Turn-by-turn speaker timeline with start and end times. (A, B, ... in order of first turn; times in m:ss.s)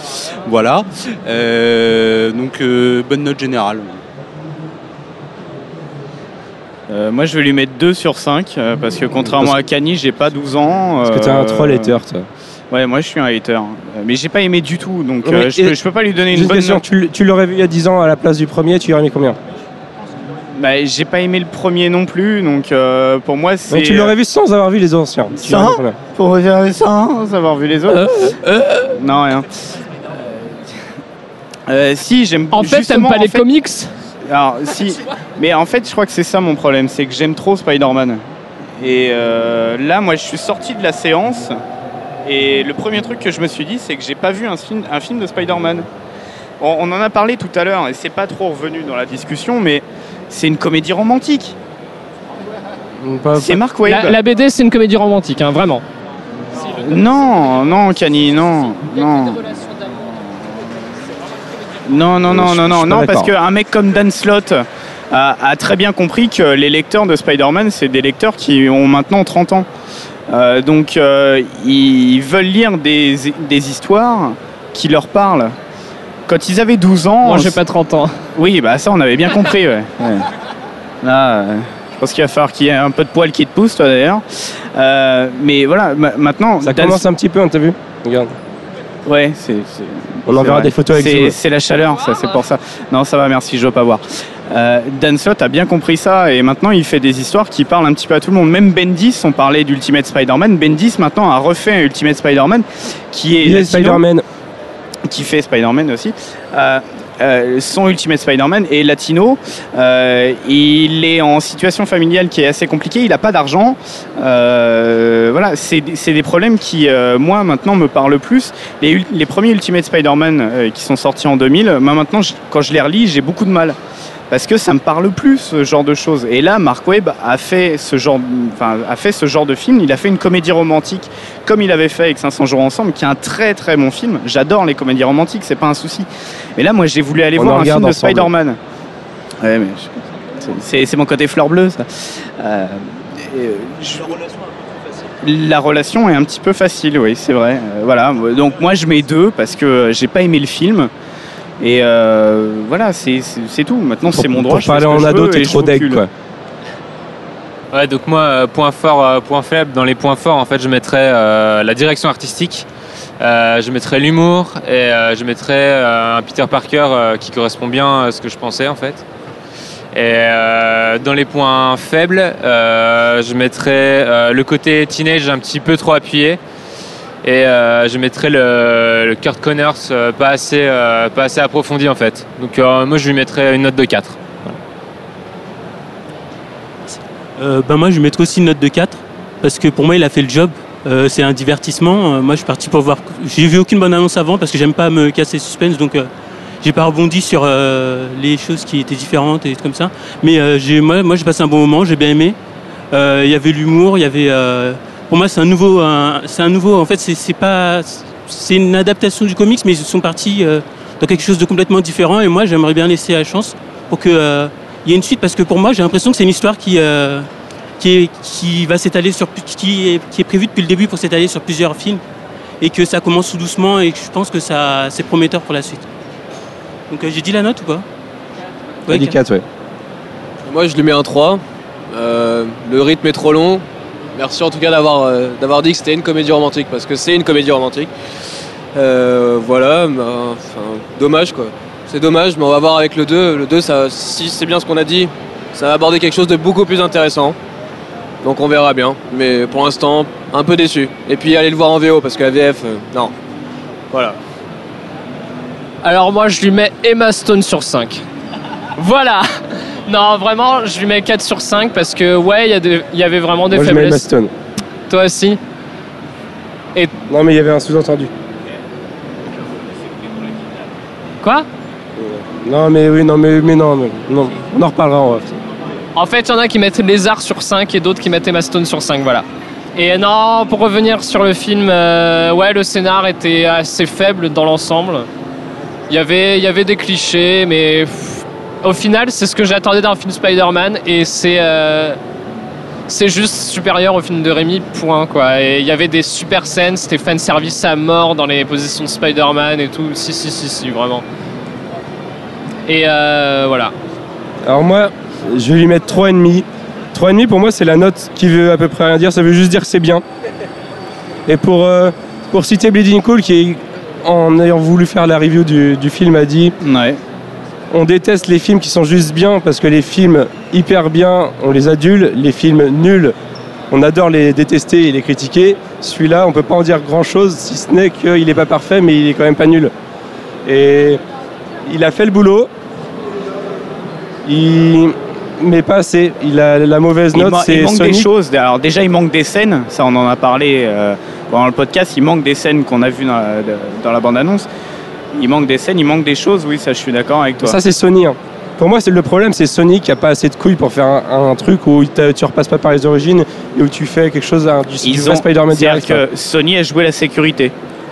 0:00.5-0:04.0 A
0:06.9-0:11.9 B
0:09.3-0:09.5 C
0:11.0-0:12.3 C
0:12.7-0:16.8 B
0:15.2-0:15.8 C
0:16.3-0:19.4 C
0:20.6-0:24.1 B
0:23.7-0:26.0 C
0:25.4-0:28.2 B
0:28.8-0:29.5 B
0:31.7-0:33.4 B
0:32.5-0:33.9 D
0:34.3-0:38.2 B
0:38.8-0:41.6 B
0:42.2-0:45.9 B
0:46.6-0:51.6 B
0:53.0-0:53.6 C
0:53.4-0:54.2 B
0:53.8-0:55.8 D
0:56.7-1:00.4 B
1:01.9-1:09.7 B
1:02.2-1:03.3 C
1:10.3-1:15.6 B
1:16.3-1:17.6 B
1:17.2-1:18.2 D
1:18.4-1:20.3 B
1:21.0-1:24.2 B
1:24.8-1:27.0 B
1:26.6-1:28.4 C
1:29.1-1:44.0 B
1:30.3-1:31.4 C
1:43.4-1:44.2 C
1:45.1-2:03.8 B
2:04.3-2:18.6 B
2:17.4-2:18.3 C
2:19.4-2:24.3 B
2:25.2-2:30.9 B
2:31.6-2:36.0 B
2:34.1-2:36.1 C
2:37.7-2:42.7 E
2:43.2-2:49.0 E
2:49.9-2:56.4 E
2:57.2-3:04.6 E
3:07.4-3:16.1 F
3:16.6-3:22.4 F
3:22.9-3:37.3 F
3:37.8-3:42.0 F
3:42.6-3:45.9 F
3:46.9-3:47.9 F
3:48.9-3:49.2 F
3:48.9-3:49.4 C
3:50.4-3:53.6 G
3:54.2-3:57.9 G
3:58.7-4:07.4 G
4:08.2-4:13.1 G
4:13.9-4:14.2 G
4:15.8-4:18.0 D
4:18.8-4:19.2 D
4:19.9-4:24.0 D
4:23.5-4:24.3 C
4:24.9-4:25.4 D
4:27.1-4:28.1 C
4:31.2-4:31.5 D
4:32.0-4:35.3 C
4:36.0-4:39.2 D
4:39.8-4:45.1 D
4:45.9-4:52.0 D
4:52.9-5:01.0 D
5:02.7-5:03.7 D
5:04.4-5:10.0 C
5:11.3-5:16.6 C
5:16.6-5:17.0 B
5:17.7-5:23.1 C
5:23.7-5:29.7 C
5:30.5-5:31.0 C
5:31.7-5:32.5 C
5:34.3-5:38.1 C
5:37.1-5:44.5 B
5:45.2-5:47.6 B
5:47.4-5:56.0 C
5:54.8-5:57.5 B